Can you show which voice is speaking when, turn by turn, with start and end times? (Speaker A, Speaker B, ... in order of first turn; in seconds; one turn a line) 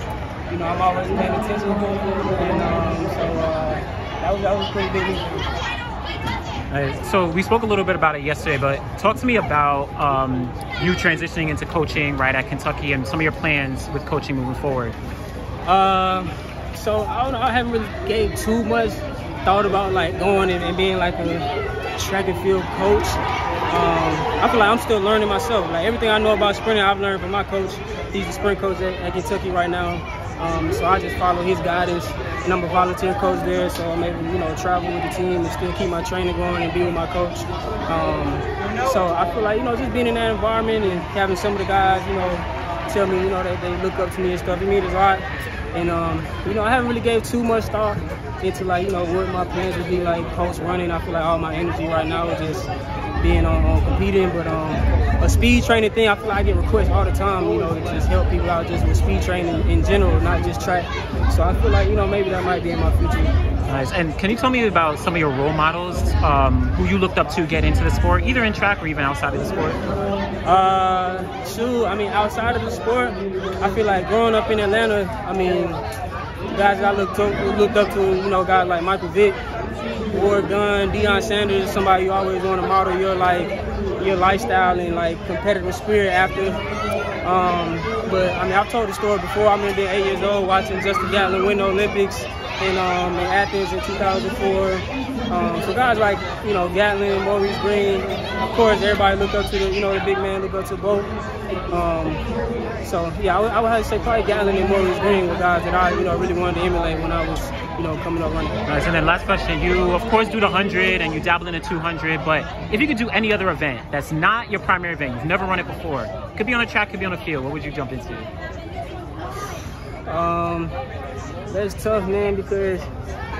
Speaker A: 0.5-5.5
Speaker B: 6.2-14.9
Speaker A: 15.7-52.7
Speaker A: 53.2-63.3
Speaker B: 63.7-69.8
Speaker A: 70.4-75.8
Speaker A: 76.5-79.4
Speaker A: 80.1-86.6
Speaker A: 87.2-101.1
Speaker A: 101.7-102.2
Speaker A: 102.8-108.6
Speaker B: 108.7-118.3
Speaker A: 120.1-120.7
Speaker A: 121.5-122.8